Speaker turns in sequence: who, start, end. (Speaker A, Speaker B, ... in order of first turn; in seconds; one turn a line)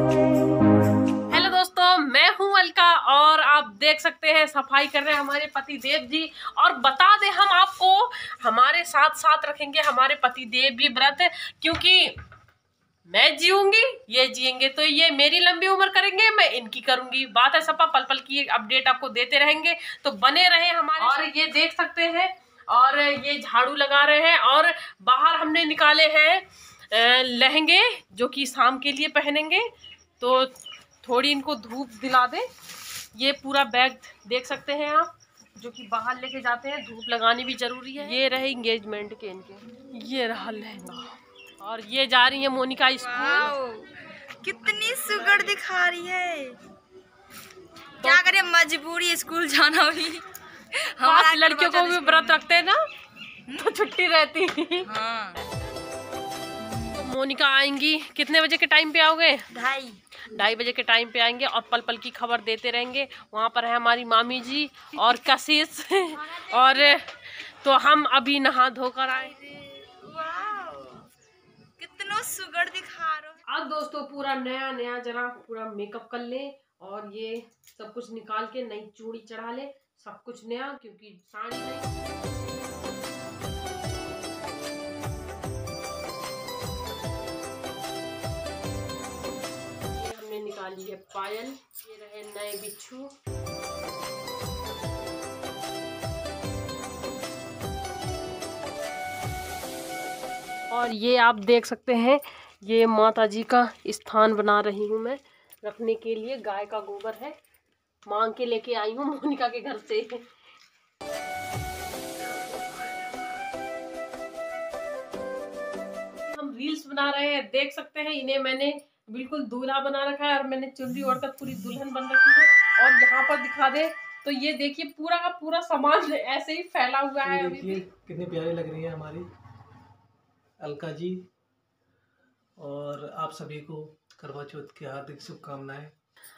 Speaker A: 1.3-12.2
Speaker A: 13.1-29.7
Speaker A: 30.2-32.5
Speaker A: 33.1-43.5
Speaker B: 43.0-46.5
Speaker A: 48.0-48.3
Speaker B: 48.0-50.2
Speaker B: 50.8-52.5
Speaker A: 51.0-52.8
Speaker A: 53.5-54.9
Speaker B: 54.8-55.4
Speaker B: 56.6-57.0
Speaker A: 57.0-59.5
Speaker B: 59.5-60.0
Speaker A: 60.3-69.4
Speaker B: 66.3-66.8
Speaker B: 69.2-71.0
Speaker B: 71.8-73.4
Speaker A: 73.5-81.9
Speaker A: 89.9-93.1
Speaker A: 100.7-107.3
Speaker A: 108.1-110.3
Speaker A: 116.2-127.8
Speaker C: 127.2-129.3
Speaker C: 130.6-131.2
Speaker C: 132.6-135.9